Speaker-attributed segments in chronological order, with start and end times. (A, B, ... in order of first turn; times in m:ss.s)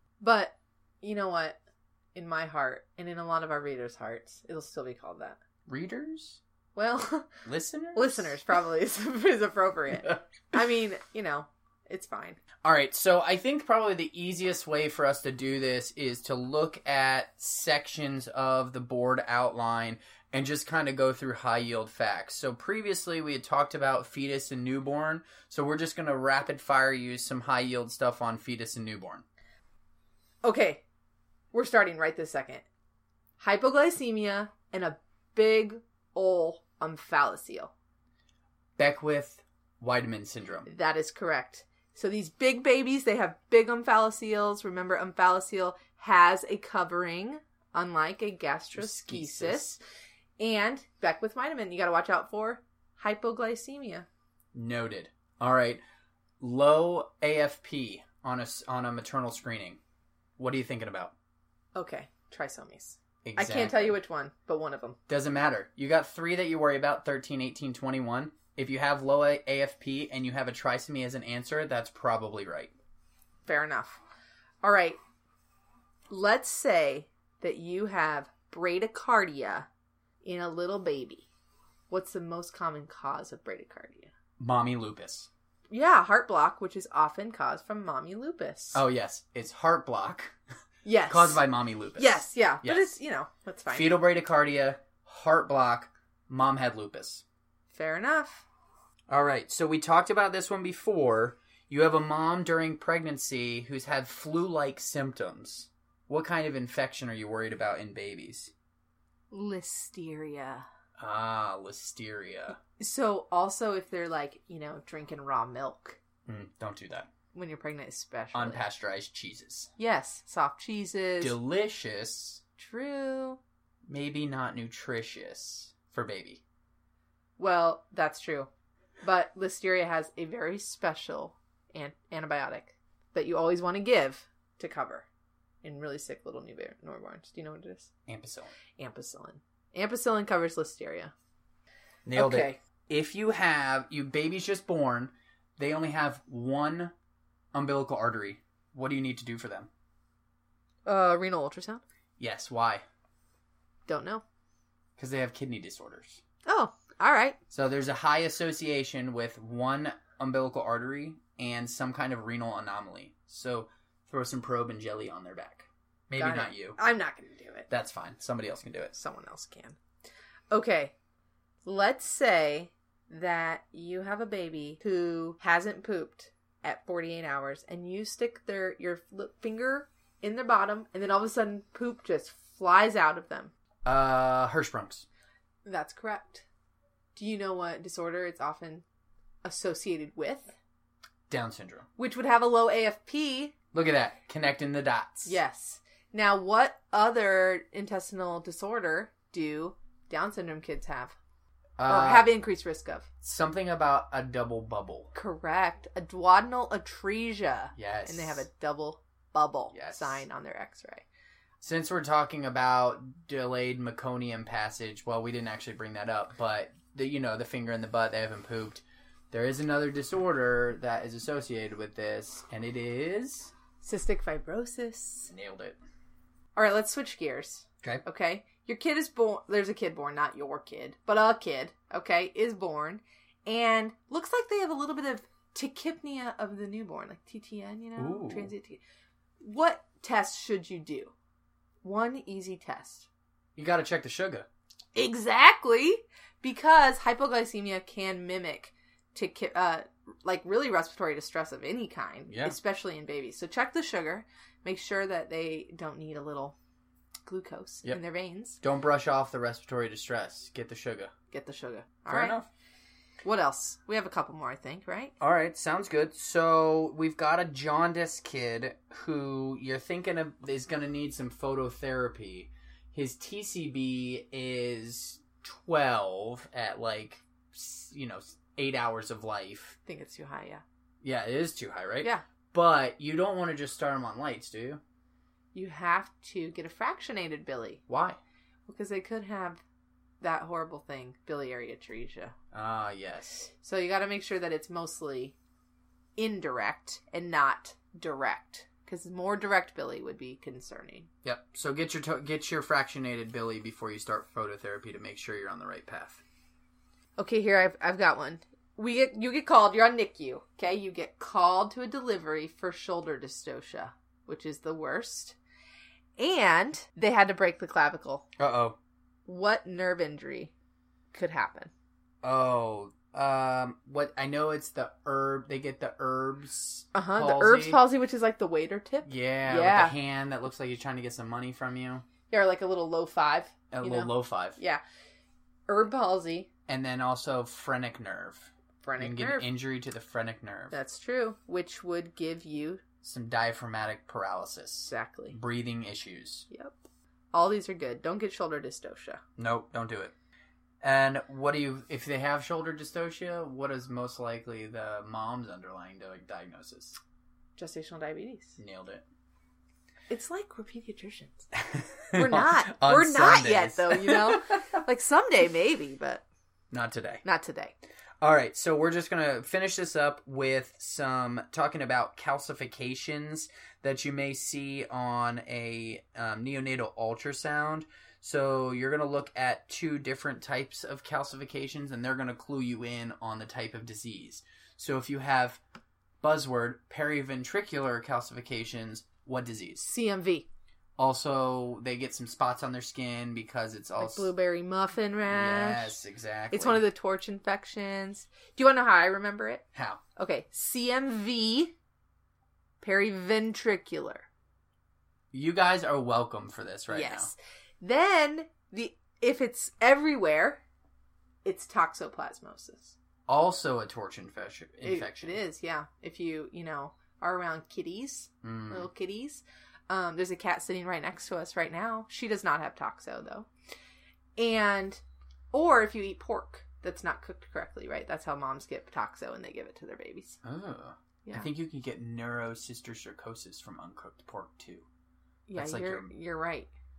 0:00.2-0:01.6 A
0:02.2-0:05.4 A
0:05.7-0:06.4 B
0:06.8-0:07.3 A
0:07.4-0:08.4 B
0:08.0-0:12.4 A
0:12.6-0:29.2 B
0:30.4-0:30.8 A
0:31.5-0:32.6 A
0:33.4-0:37.7 A
0:38.8-0:40.7 B
0:40.7-0:49.8 A
0:48.7-0:49.8 B
0:50.4-0:54.1 A
0:54.5-0:55.8 B
0:56.4-0:59.8 B
1:00.4-1:01.1 B
1:01.8-1:05.0 A
1:03.2-1:04.0 B
1:05.1-1:12.7 B
1:13.4-1:14.0 A
1:14.6-1:15.0 A
1:16.1-1:19.7 A
1:20.2-1:21.3 A
1:21.9-1:24.1 A
1:24.4-1:25.3 B
1:25.7-1:28.8 A
1:28.7-1:30.3 B
1:30.8-1:31.4 A
1:31.1-1:32.9 B
1:32.0-1:34.0 A
1:33.7-1:37.2 B
1:37.7-1:38.4 A
1:39.1-1:48.5 B
1:49.3-1:50.7 A
1:51.0-1:52.6 B
1:52.6-1:56.0 A
1:56.3-1:57.1 B
1:57.3-1:58.7 A
1:58.3-1:59.7 B
1:59.8-2:01.4 A
2:01.2-2:02.4 B
2:02.6-2:03.4 A
2:03.9-2:06.4 B
2:07.4-2:08.5 A
2:09.0-2:15.1 A
2:15.6-2:17.9 A
2:18.1-2:18.5 B
2:18.8-2:21.1 A
2:22.1-2:26.9 B
2:22.2-2:22.6 A
2:27.5-2:29.7 B
2:30.9-2:31.8 A
2:32.2-2:32.8 B
2:33.9-2:34.2 A
2:35.0-2:36.2 B
2:36.5-2:37.4 A
2:37.5-2:46.8 B
2:46.2-2:47.7 A
2:47.7-2:48.9 B
2:48.9-2:49.8 A
2:50.5-2:50.9 A
2:51.6-3:03.5 A
3:03.8-3:05.1 B
3:05.6-3:06.4 A
3:07.2-3:08.8 A
3:09.4-3:10.6 A
3:11.3-3:11.9 B
3:12.0-3:13.5 A
3:13.7-3:15.4 B
3:15.2-3:21.2 A
3:21.8-3:22.3 B
3:21.8-3:23.1 A
3:23.2-3:25.1 B
3:25.1-3:31.0 A
3:27.8-3:28.5 B
3:29.7-3:30.2 B
3:31.6-3:43.5 B
3:43.8-3:45.3 A
3:45.3-3:45.8 B
3:46.6-3:58.8 A
3:58.0-3:58.5 B
3:59.4-4:01.1 A
4:01.8-4:03.1 A
4:03.6-4:04.5 B
4:05.0-4:16.6 A
4:12.3-4:12.6 B
4:17.3-4:18.6 A
4:18.6-4:21.1 B
4:21.3-4:22.4 A
4:22.1-4:22.5 B
4:23.2-4:25.1 A
4:25.2-4:39.8 B
4:39.9-4:40.6 A
4:41.0-4:44.8 B
4:45.5-4:47.8 A
4:47.9-4:48.2 B
4:48.7-4:49.6 A
4:50.2-4:52.3 A
4:52.5-4:53.5 B
4:53.6-4:55.4 A
4:56.2-5:01.1 A
5:01.2-5:06.2 B
5:07.2-5:15.4 A
5:16.2-5:18.3 A
5:18.4-5:18.8 B
5:19.3-5:20.5 A
5:21.1-5:21.7 A
5:22.2-5:27.8 B
5:26.9-5:30.0 A
5:29.0-5:32.0 B
5:32.3-5:34.8 A
5:33.7-5:34.6 B
5:35.7-5:36.5 A
5:36.7-5:40.8 B
5:38.8-5:39.5 A
5:40.7-5:42.8 A
5:43.0-5:46.5 B
5:44.8-5:45.4 A
5:46.5-5:46.8 A
5:47.3-5:49.2 A
5:49.4-5:50.1 B
5:50.8-5:57.0 B
5:57.6-5:58.6 A
5:58.6-5:59.0 B
6:00.1-6:01.5 A
6:01.6-6:04.4 B
6:02.1-6:06.2 A
6:06.7-6:07.2 B
6:07.2-6:07.8 A
6:08.2-6:25.6 B
6:26.2-6:29.9 B
6:29.8-6:30.5 A
6:31.0-6:34.3 B
6:34.0-6:36.0 A
6:35.3-6:36.8 B
6:36.5-6:39.6 A
6:39.8-6:40.0 B
6:40.2-6:41.7 A
6:42.8-6:44.3 A
6:45.3-6:47.3 B
6:46.9-6:50.6 A
6:51.4-6:53.0 A
6:53.3-6:55.4 B
6:54.8-7:03.5 A
6:58.4-6:58.9 B
7:04.4-7:10.4 A
7:10.4-7:14.9 B
7:15.5-7:16.7 A
7:15.6-7:16.1 B